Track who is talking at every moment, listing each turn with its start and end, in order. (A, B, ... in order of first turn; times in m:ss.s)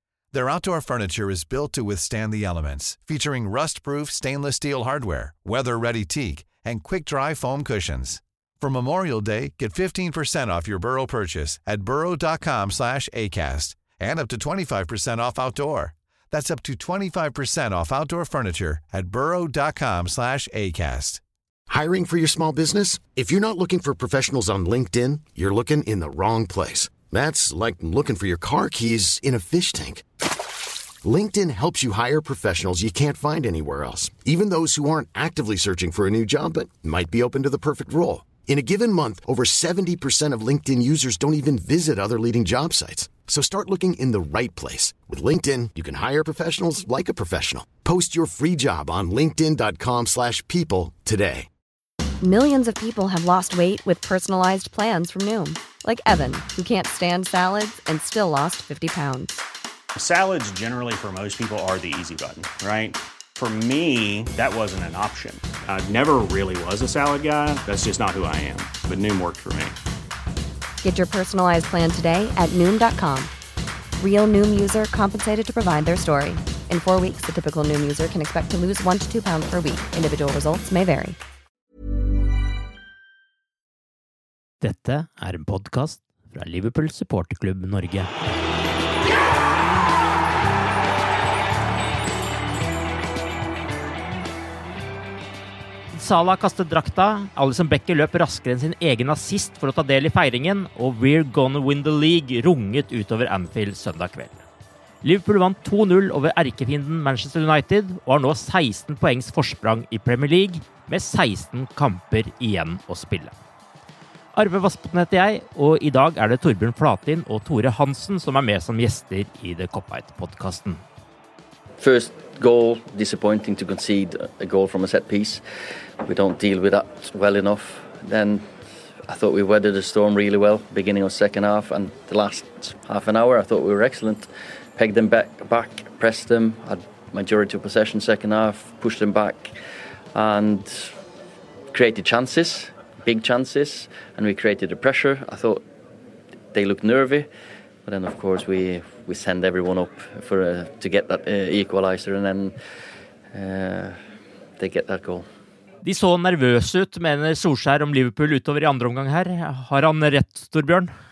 0:00.3-0:21.2 A
0:21.7-0:30.0 B
0:31.0-0:51.5 B
0:52.2-0:59.4 C
1:00.0-1:09.8 D
1:10.8-1:13.3 C
1:14.0-1:21.2 C
1:24.6-1:28.1 E
1:35.9-1:44.4 E
1:45.0-1:53.3 E
1:54.3-2:00.8 E
2:01.8-2:05.4 F
2:06.0-2:08.5 F
2:09.1-2:19.5 F
2:20.1-2:21.0 F
2:21.7-2:25.6 F
2:26.5-2:27.3 F
2:27.8-2:32.6 F
2:33.3-2:34.0 F
2:34.6-2:35.3 F
2:35.8-2:40.9 E